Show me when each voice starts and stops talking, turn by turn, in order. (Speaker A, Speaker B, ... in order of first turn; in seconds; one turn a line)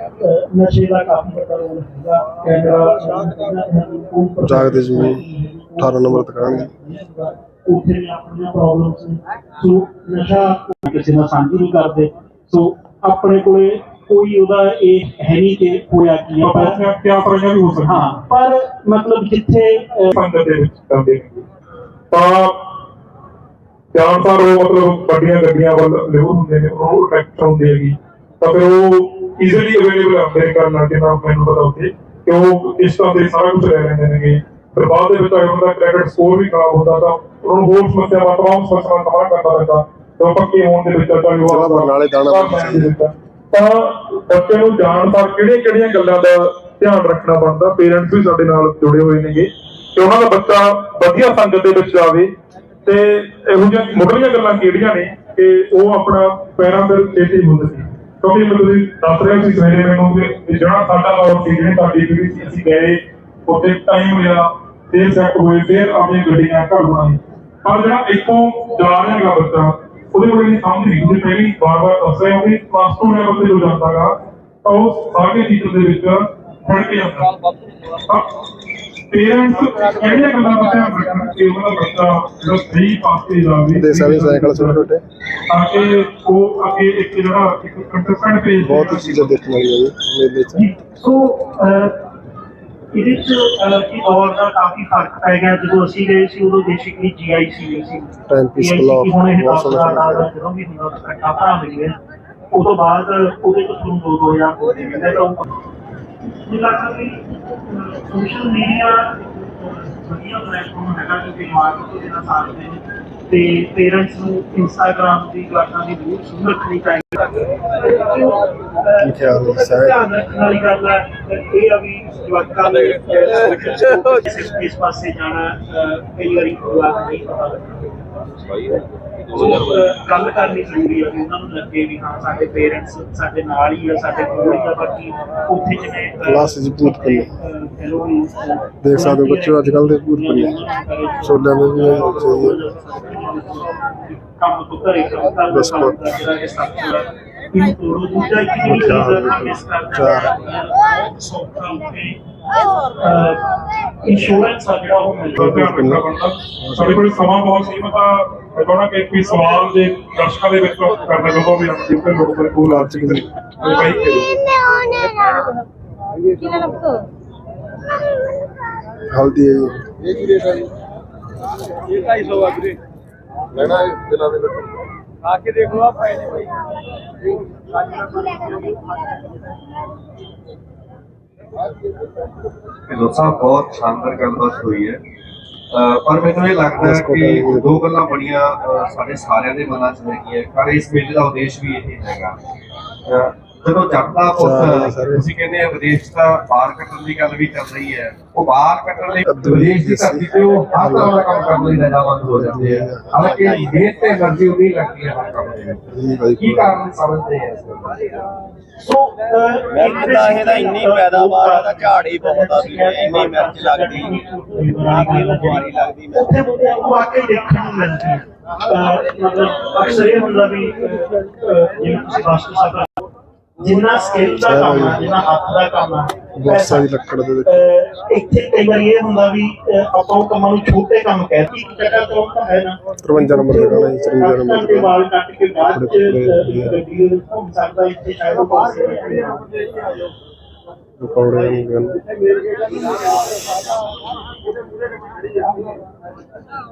Speaker A: 0.2-16.8
Speaker B: 4.5-5.2
Speaker B: 5.8-6.7
Speaker C: 16.4-18.2
Speaker A: 17.8-20.1
Speaker C: 20.1-21.4
Speaker C: 22.1-22.6
Speaker C: 23.9-52.3
Speaker B: 41.4-42.9
Speaker C: 52.9-74.1
Speaker C: 74.6-77.3
Speaker C: 79.1-84.9
Speaker B: 83.7-85.0
Speaker C: 85.5-89.4
Speaker B: 88.6-90.7
Speaker A: 90.5-92.0
Speaker A: 92.9-102.0
Speaker B: 98.3-100.3
Speaker A: 102.5-105.4
Speaker A: 106.4-152.2
Speaker B: 119.0-120.0
Speaker B: 136.3-137.3
Speaker B: 138.8-140.6
Speaker B: 141.2-142.6
Speaker B: 145.5-146.0
Speaker B: 148.6-150.3
Speaker A: 152.9-155.6
Speaker B: 155.4-156.1
Speaker C: 155.4-164.3
Speaker B: 156.6-157.1
Speaker B: 162.7-163.3
Speaker D: 164.5-165.6
Speaker D: 166.2-167.1
Speaker B: 169.1-169.9
Speaker E: 173.7-174.1
Speaker D: 177.9-179.1
Speaker F: 182.9-185.0
Speaker F: 185.7-192.3
Speaker B: 186.8-187.9
Speaker F: 193.1-208.0
Speaker B: 194.3-195.3
Speaker B: 199.3-201.3
Speaker B: 202.3-203.2
Speaker E: 203.1-203.9
Speaker B: 205.9-206.8
Speaker A: 208.8-223.0
Speaker E: 209.7-214.1
Speaker E: 215.0-216.2
Speaker A: 223.6-226.9
Speaker B: 224.4-225.1
Speaker B: 226.4-227.6
Speaker A: 227.5-239.5
Speaker B: 233.1-234.9
Speaker B: 235.7-236.8
Speaker B: 241.0-242.0